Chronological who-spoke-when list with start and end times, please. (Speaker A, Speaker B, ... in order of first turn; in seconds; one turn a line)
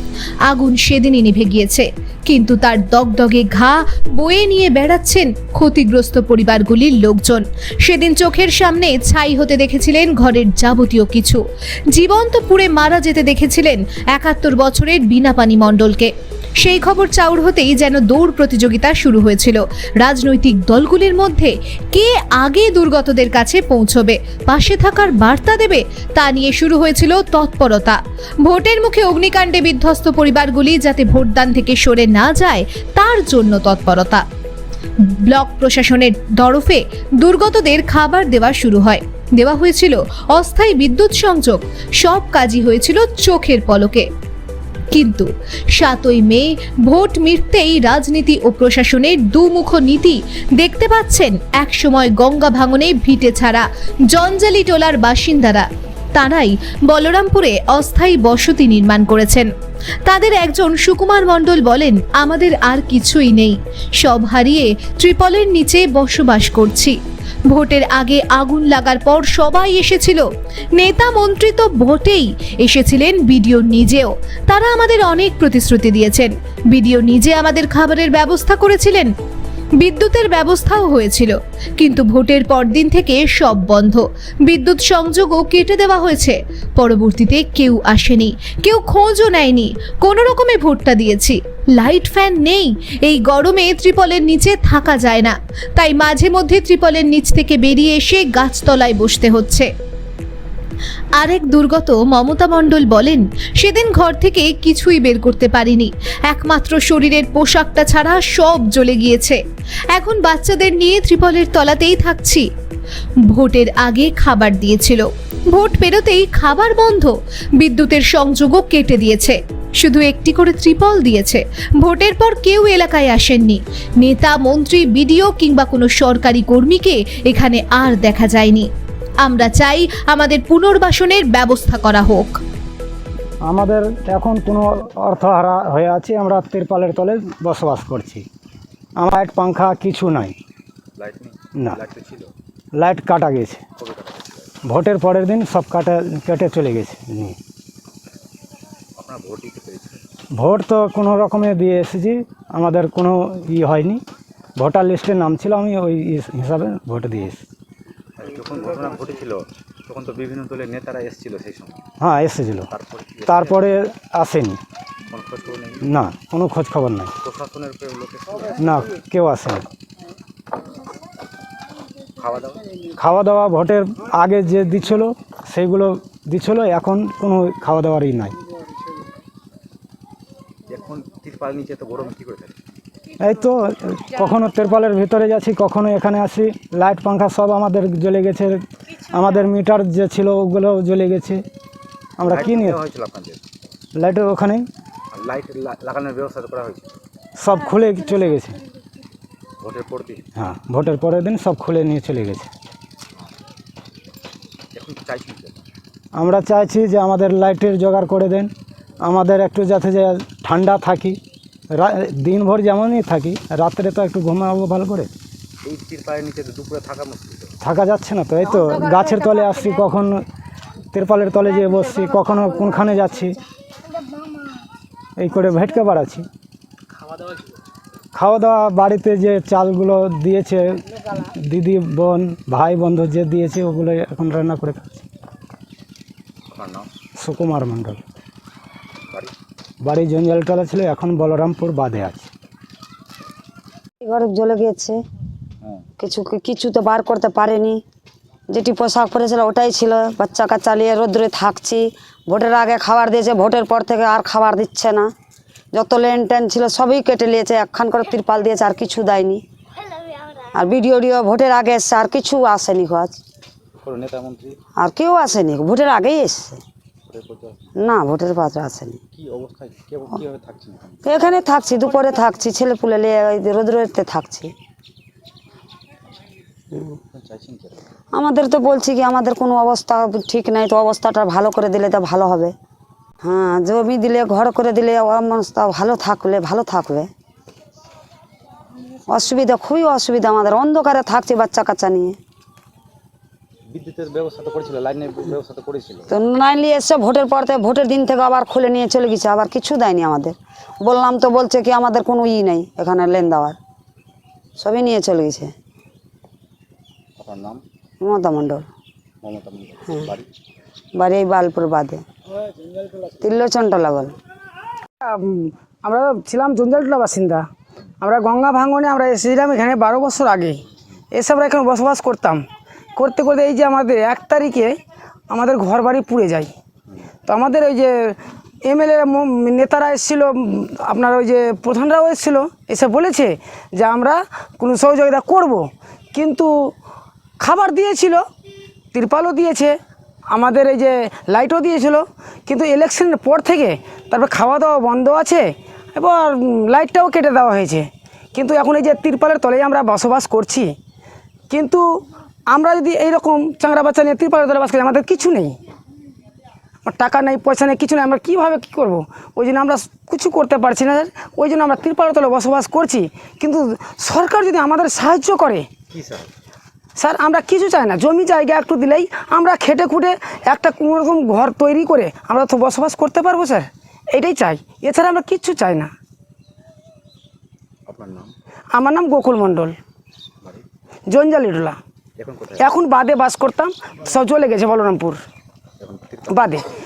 Speaker A: 0.5-34.2
Speaker A: 35.0-44.1
Speaker A: 44.9-59.5
Speaker A: 60.0-67.0
Speaker A: 67.5-79.1
Speaker A: 79.8-99.7
Speaker A: 101.2-109.4
Speaker A: 109.9-112.5
Speaker A: 113.3-128.7
Speaker A: 129.2-132.4
Speaker B: 133.4-138.2
Speaker B: 139.0-140.4
Speaker C: 141.0-142.3
Speaker B: 142.8-143.6
Speaker C: 143.8-144.5
Speaker B: 144.6-147.4
Speaker C: 149.0-150.0
Speaker B: 150.4-154.0
Speaker B: 154.6-157.4
Speaker C: 158.2-161.8
Speaker B: 162.0-162.7
Speaker C: 162.7-163.8
Speaker B: 163.3-164.6
Speaker C: 165.1-165.9
Speaker B: 165.8-167.1
Speaker C: 167.2-168.7
Speaker B: 168.6-169.7
Speaker C: 172.2-172.7
Speaker B: 173.0-178.4
Speaker C: 180.7-182.6
Speaker B: 183.2-191.4
Speaker B: 192.2-192.8
Speaker C: 192.2-193.4
Speaker B: 194.0-194.7
Speaker C: 195.1-197.0
Speaker B: 197.4-198.6
Speaker C: 199.6-200.3
Speaker B: 200.4-202.5
Speaker C: 204.7-205.6
Speaker B: 206.2-211.2
Speaker B: 211.7-215.1
Speaker C: 215.6-217.5
Speaker B: 217.6-220.2
Speaker B: 220.9-223.4
Speaker B: 225.2-226.3
Speaker B: 228.1-230.8
Speaker B: 231.4-235.0
Speaker C: 236.5-236.9
Speaker B: 237.2-238.0
Speaker B: 239.8-242.3
Speaker D: 244.0-245.0
Speaker D: 246.0-247.8
Speaker D: 248.5-255.1
Speaker D: 255.7-259.4
Speaker D: 260.5-263.2
Speaker C: 263.8-264.6
Speaker D: 264.8-266.6
Speaker C: 267.1-267.7
Speaker D: 267.8-269.0
Speaker C: 269.1-271.0
Speaker D: 271.1-274.5
Speaker D: 276.7-277.0
Speaker C: 277.1-277.9
Speaker D: 278.1-282.5
Speaker D: 283.2-287.1
Speaker D: 289.1-292.2
Speaker C: 293.7-296.1
Speaker D: 296.1-303.6
Speaker D: 304.6-305.5
Speaker C: 307.2-307.6
Speaker D: 308.0-308.7
Speaker C: 309.2-310.3
Speaker D: 310.9-312.0
Speaker D: 313.1-314.1
Speaker E: 315.8-317.4
Speaker E: 318.0-320.6
Speaker E: 321.2-322.4
Speaker E: 323.0-324.7
Speaker E: 325.3-326.5
Speaker E: 327.3-327.9
Speaker E: 328.7-330.3
Speaker E: 330.9-335.6
Speaker E: 336.1-336.5
Speaker E: 337.4-338.2
Speaker E: 338.9-339.7
Speaker E: 340.3-345.4
Speaker E: 345.9-350.7
Speaker E: 351.5-351.8
Speaker E: 352.5-355.5
Speaker E: 356.9-365.6
Speaker C: 365.9-366.3
Speaker E: 367.0-375.9
Speaker C: 377.9-378.3
Speaker E: 378.7-379.8
Speaker E: 381.1-381.8
Speaker C: 382.2-382.8
Speaker E: 382.6-385.2
Speaker C: 385.8-386.4